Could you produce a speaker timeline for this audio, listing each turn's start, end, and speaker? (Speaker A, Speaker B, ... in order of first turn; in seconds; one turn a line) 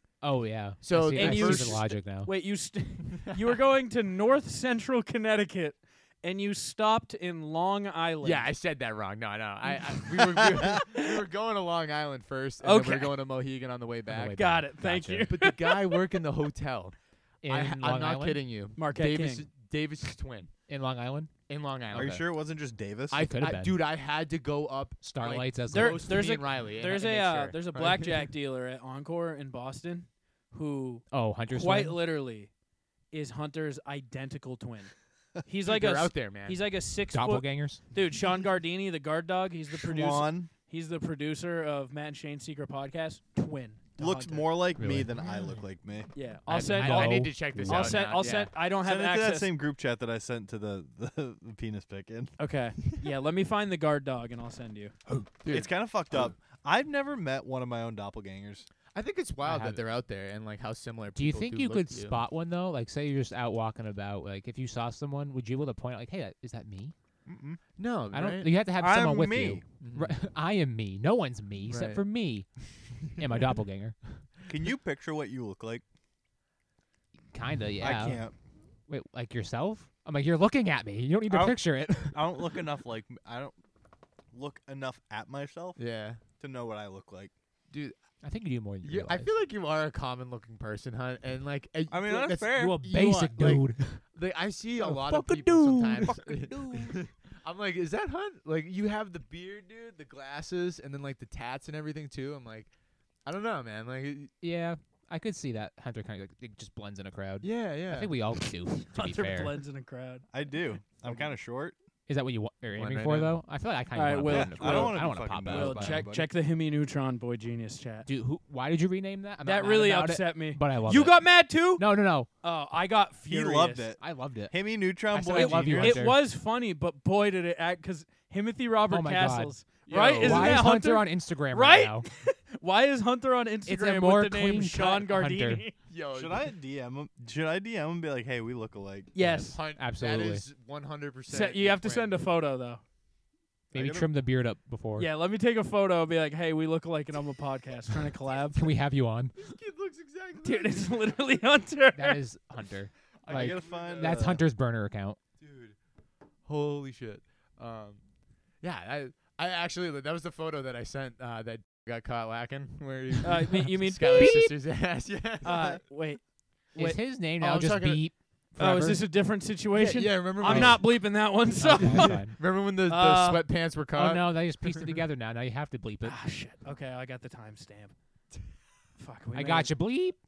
Speaker A: 0.2-2.3
Speaker B: 0.8-1.9
Speaker C: 1.1-8.5
Speaker B: 8.2-14.6
Speaker C: 9.6-10.2
Speaker C: 10.8-11.2
Speaker C: 12.6-13.2
Speaker A: 14.1-15.3
Speaker C: 14.1-16.2
Speaker B: 15.3-17.0
Speaker A: 17.4-18.4
Speaker B: 17.5-20.5
Speaker C: 18.8-19.5
Speaker A: 20.7-21.3
Speaker B: 21.5-22.2
Speaker A: 21.9-22.2
Speaker D: 21.9-23.2
Speaker B: 23.1-28.3
Speaker A: 23.2-23.8
Speaker A: 25.0-26.2
Speaker C: 25.7-32.5
Speaker A: 31.1-32.0
Speaker C: 33.1-44.5
Speaker B: 35.7-36.6
Speaker A: 37.1-37.8
Speaker D: 39.8-40.5
Speaker D: 44.0-46.1
Speaker A: 44.8-45.1
Speaker C: 46.1-49.5
Speaker B: 46.5-48.5
Speaker A: 46.6-48.2
Speaker D: 48.7-52.4
Speaker C: 52.4-55.0
Speaker B: 55.3-56.3
Speaker D: 55.5-58.7
Speaker B: 58.9-62.2
Speaker A: 59.4-59.8
Speaker A: 61.1-66.9
Speaker D: 67.3-67.6
Speaker B: 67.8-68.5
Speaker A: 68.1-74.0
Speaker D: 68.8-69.6
Speaker B: 69.8-70.1
Speaker B: 71.7-72.0
Speaker D: 74.5-75.8
Speaker A: 77.3-78.2
Speaker D: 77.8-78.3
Speaker A: 78.9-82.5
Speaker D: 81.3-83.6
Speaker D: 84.3-85.8
Speaker B: 85.8-86.2
Speaker D: 86.4-87.3
Speaker B: 87.7-88.0
Speaker A: 88.2-89.3
Speaker B: 88.8-102.7
Speaker D: 91.9-93.1
Speaker A: 92.6-94.0
Speaker A: 94.8-96.8
Speaker D: 96.0-97.0
Speaker B: 103.2-104.3
Speaker A: 104.4-109.6
Speaker B: 107.4-108.1
Speaker C: 108.7-110.3
Speaker D: 110.3-111.8
Speaker A: 112.1-116.0
Speaker B: 112.8-113.4
Speaker C: 113.9-118.1
Speaker D: 114.3-116.3
Speaker A: 118.1-121.2
Speaker C: 119.4-121.9
Speaker A: 121.8-122.3
Speaker C: 122.4-123.9
Speaker D: 123.3-126.0
Speaker A: 124.0-124.5
Speaker A: 125.1-126.2
Speaker C: 125.3-135.7
Speaker A: 128.9-132.1
Speaker B: 129.9-130.7
Speaker A: 133.7-135.6
Speaker B: 135.9-136.5
Speaker D: 136.1-139.1
Speaker C: 139.1-139.6
Speaker A: 139.2-140.4
Speaker B: 139.5-142.2
Speaker C: 141.3-142.8
Speaker D: 143.7-144.1
Speaker A: 143.7-145.1
Speaker C: 145.0-148.6
Speaker A: 148.5-149.3
Speaker B: 149.4-151.2
Speaker C: 150.4-152.2
Speaker A: 151.9-155.2
Speaker B: 153.2-154.3
Speaker D: 153.3-154.4
Speaker B: 155.4-155.8
Speaker B: 156.4-158.0
Speaker B: 158.6-165.8
Speaker C: 163.2-164.4
Speaker A: 164.1-164.5
Speaker C: 165.4-167.0
Speaker D: 165.5-165.8
Speaker A: 166.8-169.1
Speaker B: 167.4-168.1
Speaker C: 168.6-173.4
Speaker B: 169.7-170.8
Speaker A: 170.4-170.8
Speaker A: 171.6-172.4
Speaker B: 171.8-175.0
Speaker A: 173.9-176.2
Speaker C: 176.0-177.9
Speaker C: 179.0-179.7
Speaker A: 179.3-180.2